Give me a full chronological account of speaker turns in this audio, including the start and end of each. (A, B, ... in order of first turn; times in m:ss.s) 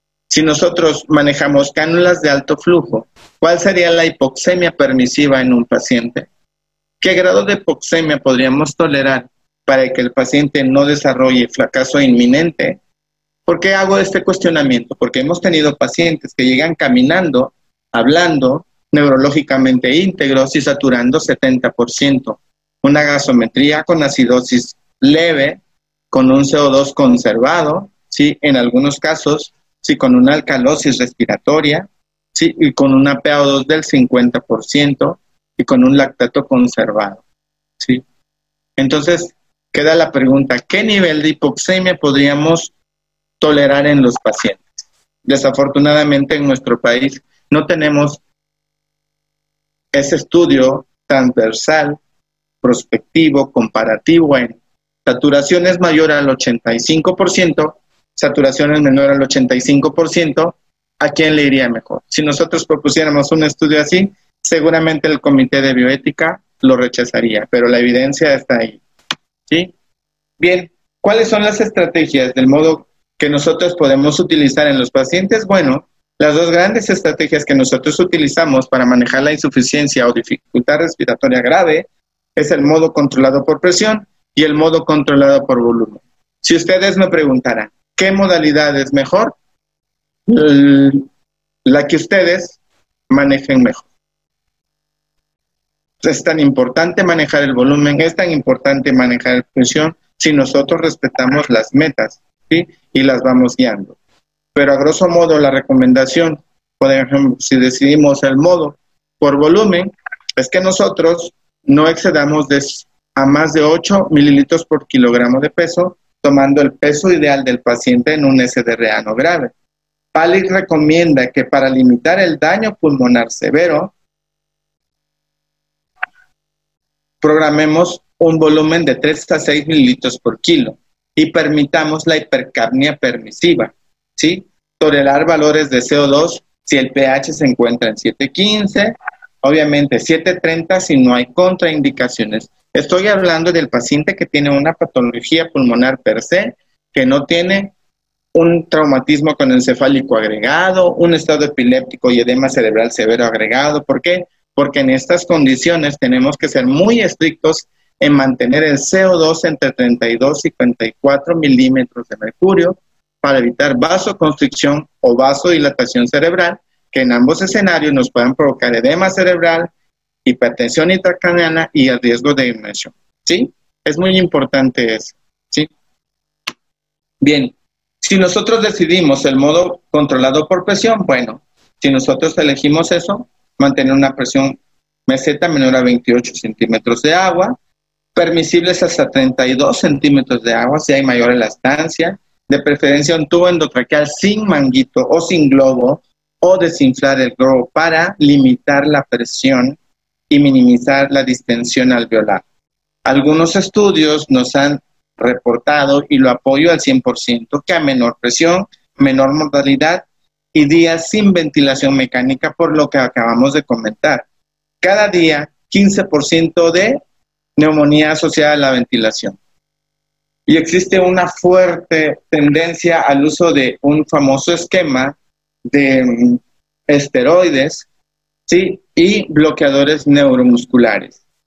0:00.3-0:06.3 A
0:07.0-0:12.8 A
0:13.4-0:25.6 A
0:26.1-0:37.2 A
0:38.8-0:42.7 A
0:43.4-0:44.7 A
0:45.2-0:48.2 A
0:49.9-0:52.0 A
0:52.6-1:08.8 A
1:09.5-1:09.7 A
1:10.4-1:29.4 A
1:30.3-1:31.0 A
1:31.6-1:32.6 A
1:33.1-1:33.9 A
1:36.0-1:44.0 A
1:44.5-1:59.5 A
2:00.1-2:03.9 A
2:07.2-2:27.7 A
2:28.3-2:49.7 A
2:50.2-2:55.7 A
2:57.2-3:07.6 A
3:08.1-3:19.8 A
3:20.3-3:22.4 A
3:23.0-3:34.2 A
3:34.8-3:37.0 A
3:37.6-3:39.4 A
3:40.5-3:47.9 A
3:48.5-3:51.2 A